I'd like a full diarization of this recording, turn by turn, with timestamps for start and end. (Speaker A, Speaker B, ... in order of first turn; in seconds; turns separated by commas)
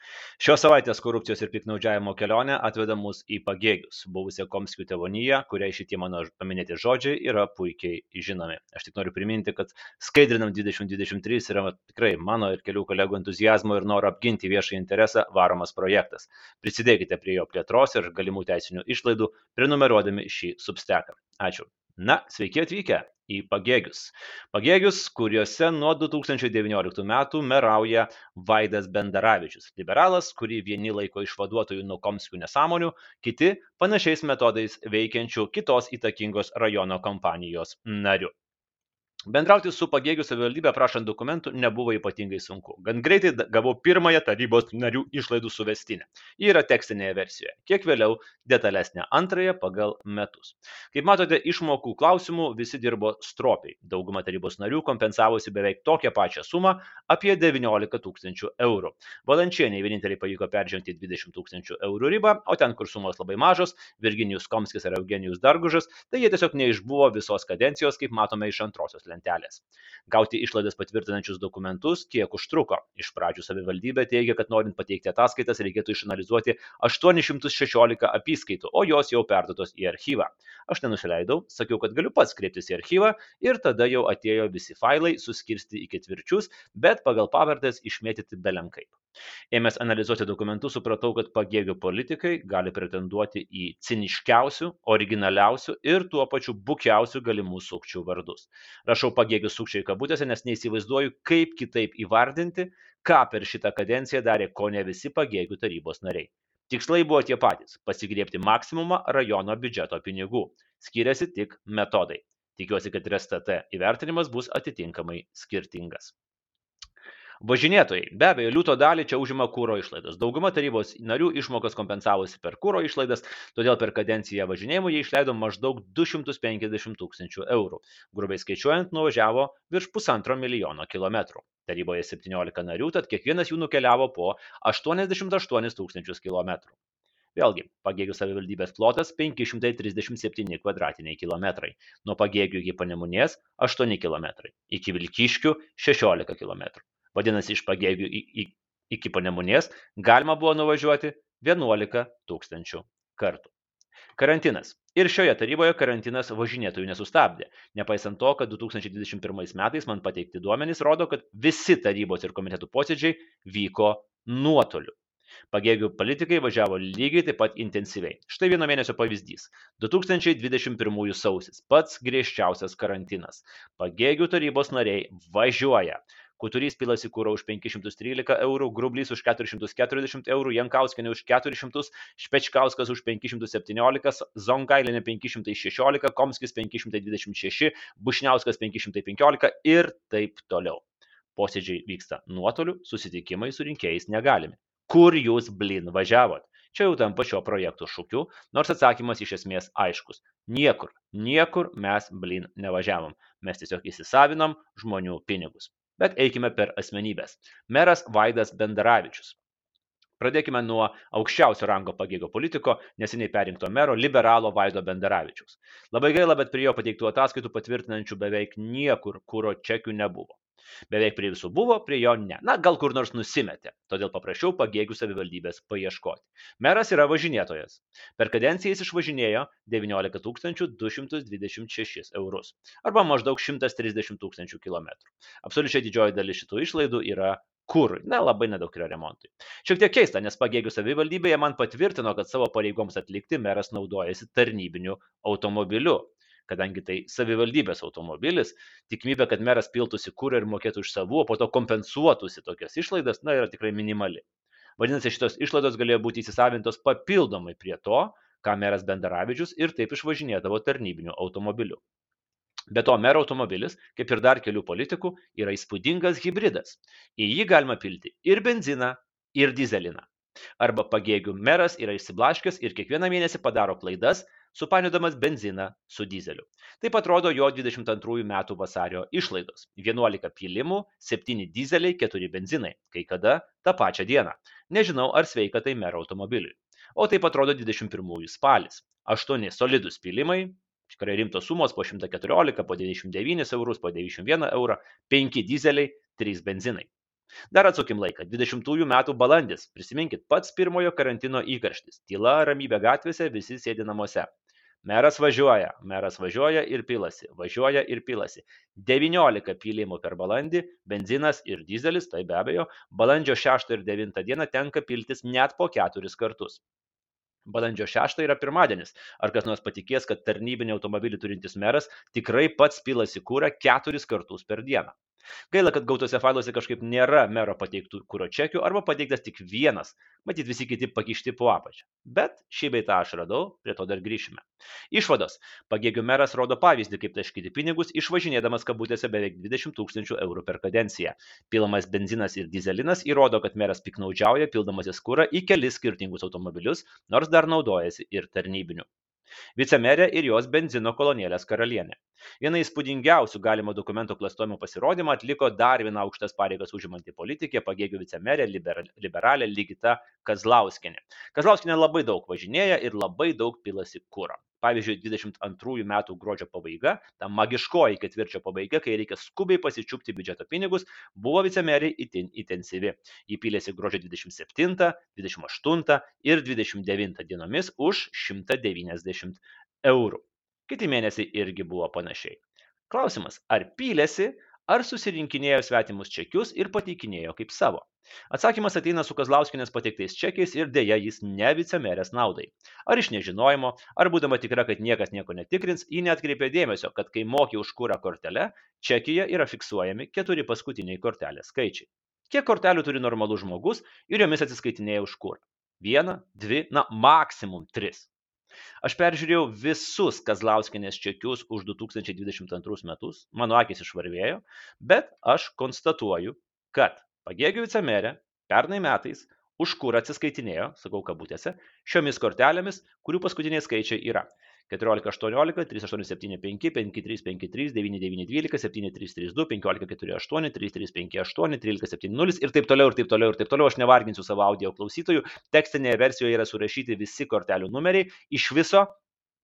Speaker A: 0.4-38.3, Speaker A: 39.3-89.0, Speaker A: 89.5-116.1, Speaker A: 117.4-136.7, Speaker A: 137.3-153.5, Speaker A: 154.2-164.9, Speaker A: 165.5-190.8, Speaker A: 191.4-209.4, Speaker A: 210.2-220.4, Speaker A: 220.9-254.2, Speaker A: 254.8-261.8, Speaker A: 262.7-270.1, Speaker A: 270.6-296.9, Speaker A: 297.5-304.3, Speaker A: 304.8-316.6, Speaker A: 317.4-324.9, Speaker A: 325.5-348.9, Speaker A: 349.6-408.1, Speaker A: 408.8-438.9